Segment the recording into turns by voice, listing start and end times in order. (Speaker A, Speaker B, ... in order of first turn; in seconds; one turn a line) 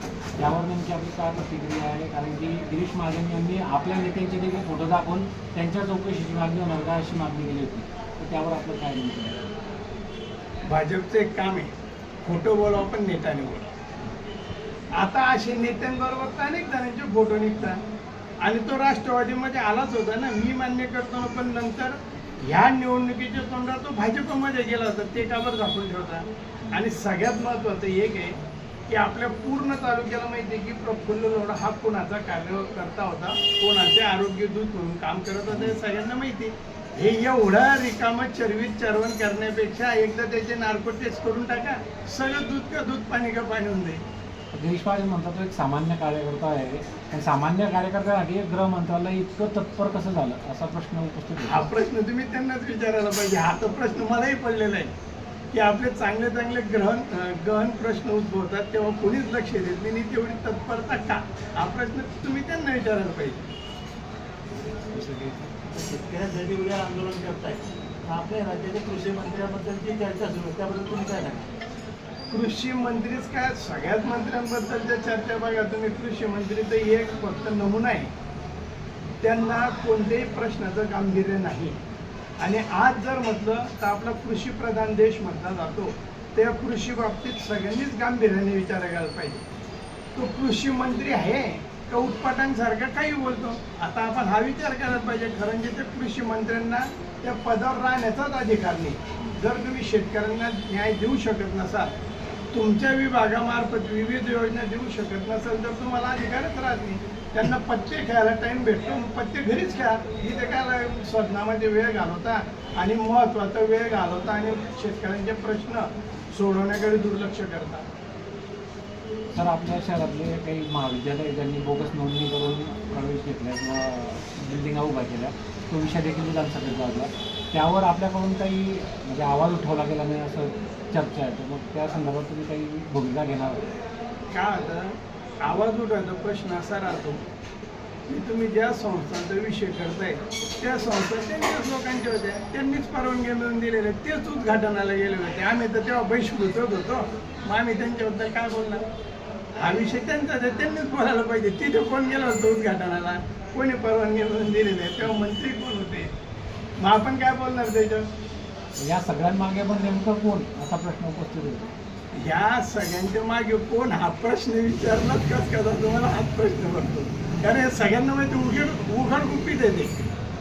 Speaker A: 0.4-9.4
Speaker B: 10.7-11.7
Speaker B: 12.2-13.7
Speaker B: 15.0-17.8
Speaker B: 18.4-28.4
Speaker B: 28.9-44.0
Speaker A: 44.5-51.7
Speaker B: 51.5-54.9
Speaker B: 55.5-63.4
Speaker A: 64.9-65.4
Speaker C: 65.7-71.5
Speaker B: 72.3-78.1
Speaker B: 79.2-81.8
Speaker B: 82.4-89.4
Speaker B: 90.1-101.9
Speaker B: 102.5-117.8
Speaker A: 119.3-133.6
Speaker B: 134.3-137.2
Speaker B: 138.1-148.8
Speaker B: 149.6-156.1
Speaker B: 156.8-158.1
Speaker A: 158.8-161.7
Speaker B: 162.1-169.9